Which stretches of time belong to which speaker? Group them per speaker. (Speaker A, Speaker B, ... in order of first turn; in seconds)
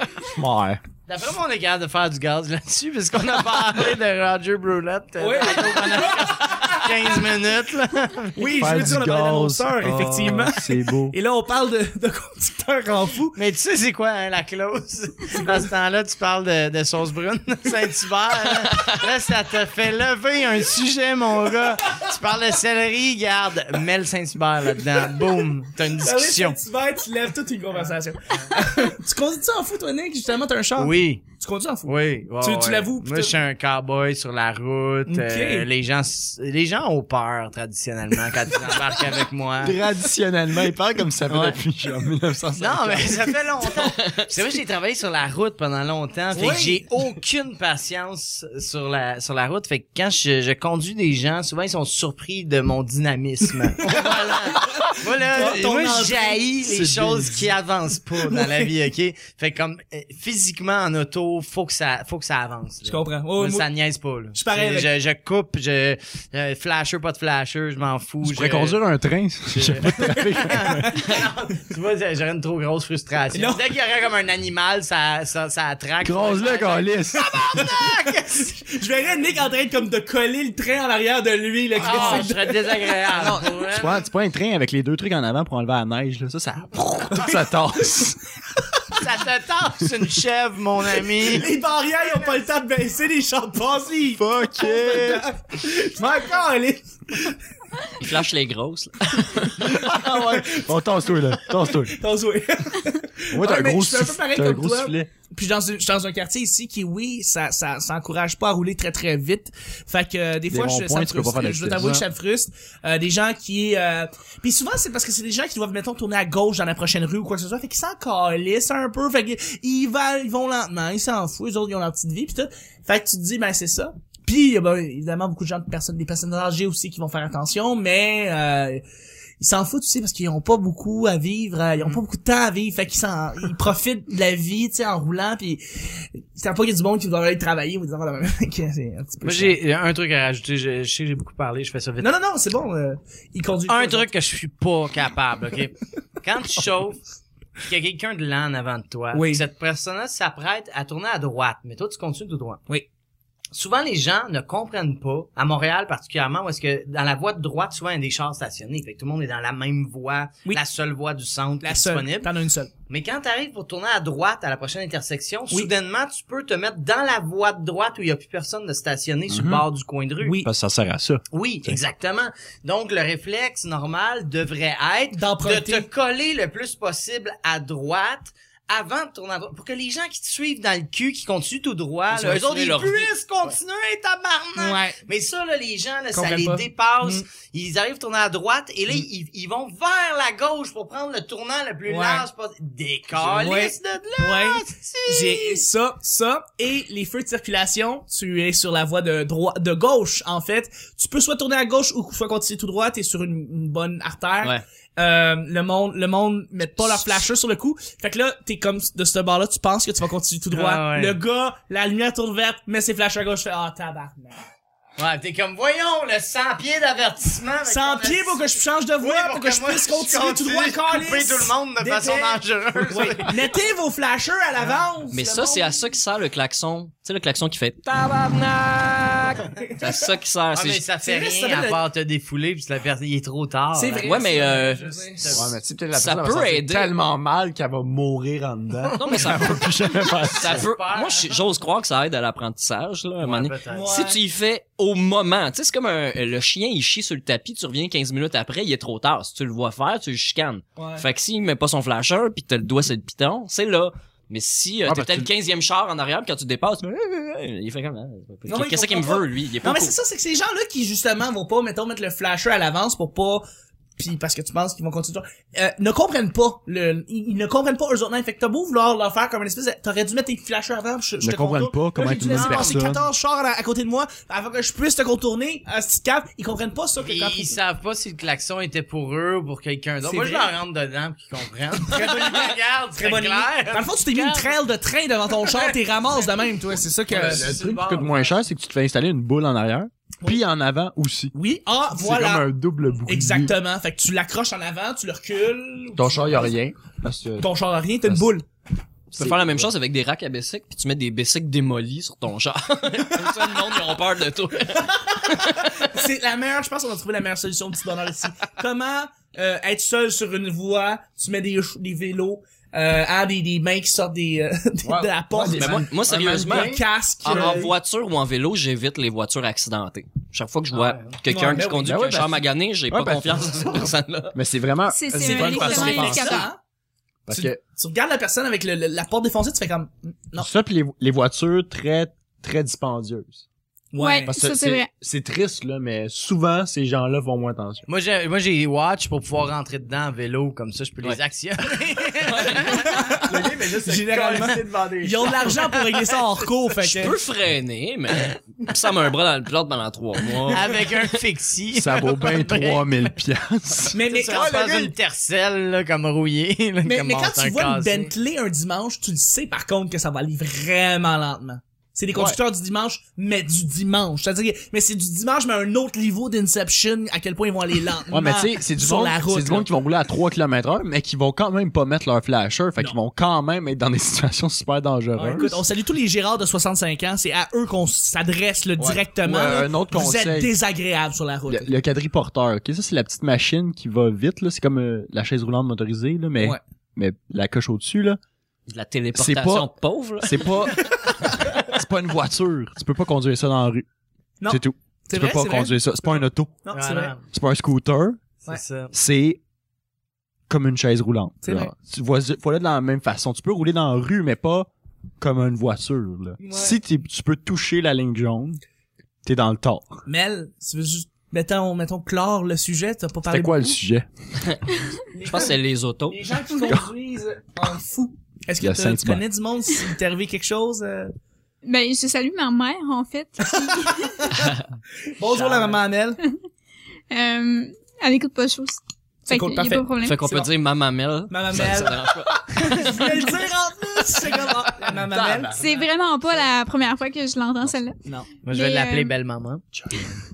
Speaker A: 0.3-0.8, 8.5-11.2, 39.6-43.4, 56.6-57.5, 68.2-70.9, 76.0-77.9, 81.9-82.2, 83.2-88.2, 94.2-95.3, 99.6-102.0, 103.3-105.1, 110.5-112.0, 169.3-169.7, 170.4-171.8, 235.3-240.7, 254.8-255.3, 271.2-273.0, 287.1-291.3, 291.9-293.5, 296.0-297.5, 298.0-298.3, 299.2-299.7, 314.8-317.7, 321.8-326.5, 327.3-327.6, 330.4-333.4, 334.3-337.8, 343.2-345.5, 351.7-354.9, 362.1-362.4, 368.1-375.6, 378.8-380.5, 381.5-388.2, 389.1-393.9, 394.5-396.6, 397.3-398.2, 398.9-399.4, 400.5-408.6, 409.2-410.0, 413.3-414.1, 418.6-419.2, 434.8-435.9, 439.7-440.1
Speaker B: 1.1-9.0, 9.9-10.4, 13.4-26.6, 28.3-28.8, 30.8-31.2, 31.9-39.8, 41.3-41.6, 42.6-68.8, 69.5-78.6, 81.8-84.1, 88.9-91.5, 139.2-142.1, 143.7-147.0, 147.7-152.6, 153.5-162.3, 162.9-170.4, 171.3-195.6, 210.5-211.2, 215.0-218.4, 219.0-223.4, 230.6-235.6, 238.9-239.2, 240.4-241.5, 243.2-243.9, 272.3-272.8, 277.0-284.6, 287.1-288.3, 320.7-321.1, 337.9-342.9, 350.5-353.1, 354.1-358.1, 396.7-397.2, 398.5-398.9, 425.4-425.8, 438.4-439.6
Speaker C: 5.2-7.2, 8.4-13.4, 26.0-33.4, 35.1-35.7, 46.3-46.9, 54.7-56.4, 62.8-63.7, 64.3-64.9, 69.9-71.1, 73.3-73.6, 78.6-83.5, 91.2-97.4, 99.8-128.8, 129.4-135.6, 136.3-139.6, 142.0-144.1, 149.1-149.4, 161.6-162.7, 170.2-170.5, 175.1-175.9, 184.6-185.0, 186.1-187.2, 191.9-192.3, 193.2-214.4, 217.7-225.7, 231.0-231.8, 233.8-235.3, 243.7-244.2, 250.8-251.1, 258.5-263.4, 264.0-277.5, 280.0-280.5, 283.0-287.5, 291.4-292.5, 293.1-296.5, 297.4-298.4, 305.8-317.6, 321.3-322.0, 325.1-326.6, 327.3-330.5, 333.9-334.3, 342.7-347.2, 353.9-354.4, 356.9-369.7, 375.2-381.7, 394.4-397.1, 401.4-401.7, 406.4-406.8, 410.1-413.8, 415.1-415.6, 416.1-421.1, 423.5-424.5, 425.2-426.2, 429.3-430.5, 431.3-435.6
Speaker D: 43.8-44.3, 98.0-99.7, 182.1-183.1, 225.1-230.8, 234.0-234.8, 235.9-236.9, 239.0-239.7, 240.4-259.9, 299.1-305.7, 315.6-324.4, 342.2-342.9, 346.9-351.2, 388.7-390.7, 415.2-416.3, 430.0-432.8
Speaker E: 324.9-326.5, 334.0-334.9, 421.6-424.3, 427.1-430.2, 435.5-439.1